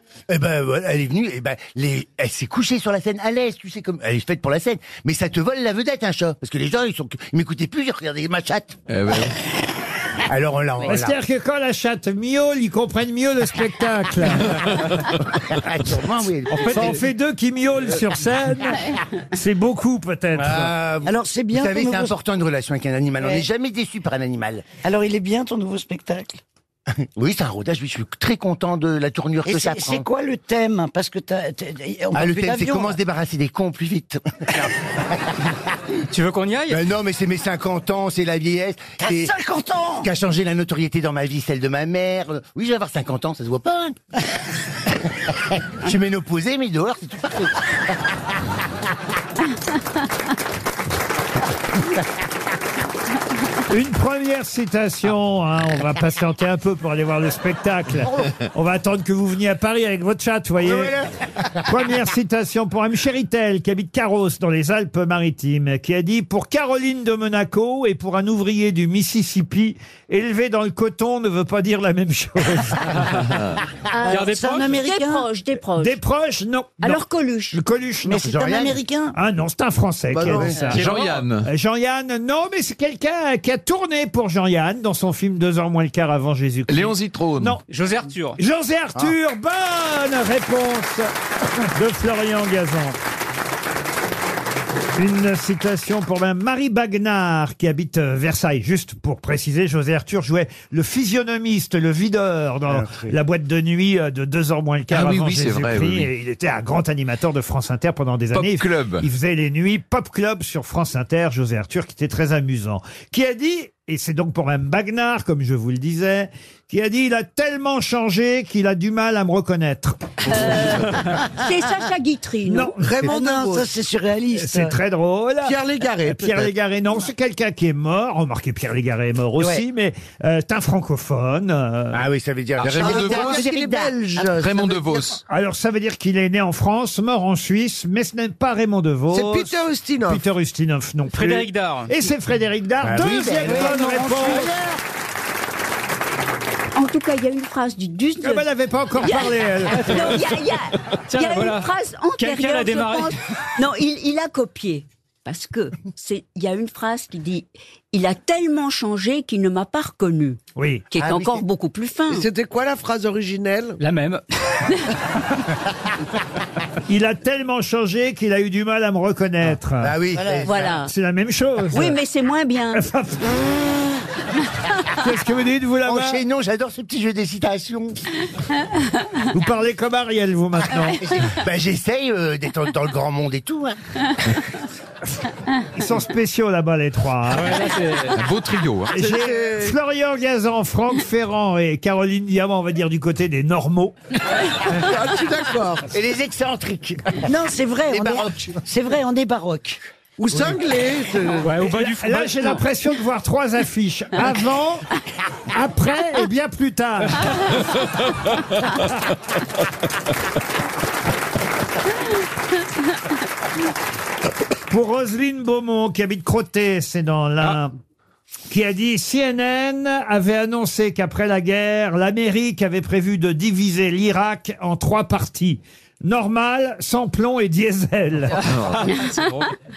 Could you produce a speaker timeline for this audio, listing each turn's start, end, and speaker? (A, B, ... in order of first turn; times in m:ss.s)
0:00.3-0:08.8 A
0:08.9-0:09.3 B
0:10.2-0:11.2 A
0:10.8-0:14.6 C
0:15.3-0:17.0 A
0:16.5-0:16.9 D
0:16.5-0:20.7 C
0:20.4-0:24.6 A
0:21.0-0:22.2 E
0:24.8-0:26.4 E
0:27.0-0:30.1 A
0:29.4-0:33.0 E
0:32.1-0:34.7 A
0:36.1-0:36.8 D
0:36.7-0:39.3 A
0:39.0-0:40.1 E
0:40.0-0:44.0 A
0:45.7-0:47.6 A
0:53.7-1:00.9 C
1:00.6-1:01.1 A
1:01.6-1:13.2 C
1:13.9-1:16.0 F
1:14.0-1:15.3 E
1:14.1-1:14.7 D
1:15.8-1:18.5 C
1:16.8-1:17.6 F
1:18.0-1:19.2 E
1:18.2-1:18.8 A
1:19.1-1:27.6 C
1:20.2-1:20.7 A
1:20.2-1:20.7 G
1:20.6-1:21.5 B
1:26.7-1:27.6 B
1:27.7-1:28.4 D
1:28.4-1:33.0 C
1:35.0-2:00.7 C
1:42.7-1:43.1 A
1:44.9-1:46.1 B
1:48.3-1:49.1 B
2:00.2-2:02.7 F
2:02.4-2:02.9 C
2:02.8-2:03.7 G
2:03.0-2:04.8 E
2:04.3-2:12.0 C
2:05.4-2:06.5 G
2:09.4-2:09.6 E
2:11.9-2:13.9 A
2:12.6-2:13.5 B
2:12.6-2:15.1 G
2:14.2-2:15.2 B
2:15.2-2:24.5 C
2:19.1-2:20.2 G
2:21.1-2:21.9 D
2:22.8-2:24.4 A
2:23.4-2:24.8 E
2:26.7-2:28.4 F
2:28.2-2:30.2 C
2:29.0-2:40.4 F
2:31.1-2:33.1 D
2:40.6-2:40.8 C
2:40.9-2:42.2 F
2:41.0-2:41.4 A
2:42.1-2:43.8 G
2:43.8-2:44.7 D
2:46.9-2:52.0 C
2:49.8-2:50.7 A
2:50.4-2:50.9 F
2:51.7-2:52.8 F
2:52.7-2:53.4 C
2:54.9-2:56.2 C
2:55.8-2:58.0 A
2:59.3-3:01.0 C
3:01.0-3:03.8 A
3:05.8-3:07.8 C
3:07.3-3:08.2 D
3:08.1-3:09.0 B
3:08.9-3:09.7 G
3:08.9-3:13.9 C
3:14.7-3:15.9 G
3:15.9-3:17.3 A
3:17.2-3:19.8 E
3:17.9-3:18.6 A
3:20.2-3:21.6 G
3:21.4-3:22.6 D
3:21.6-3:24.9 C
3:25.5-3:27.5 C
3:34.7-3:37.7 C
3:38.5-3:48.4 C
3:48.3-3:49.5 D
3:48.4-3:48.9 B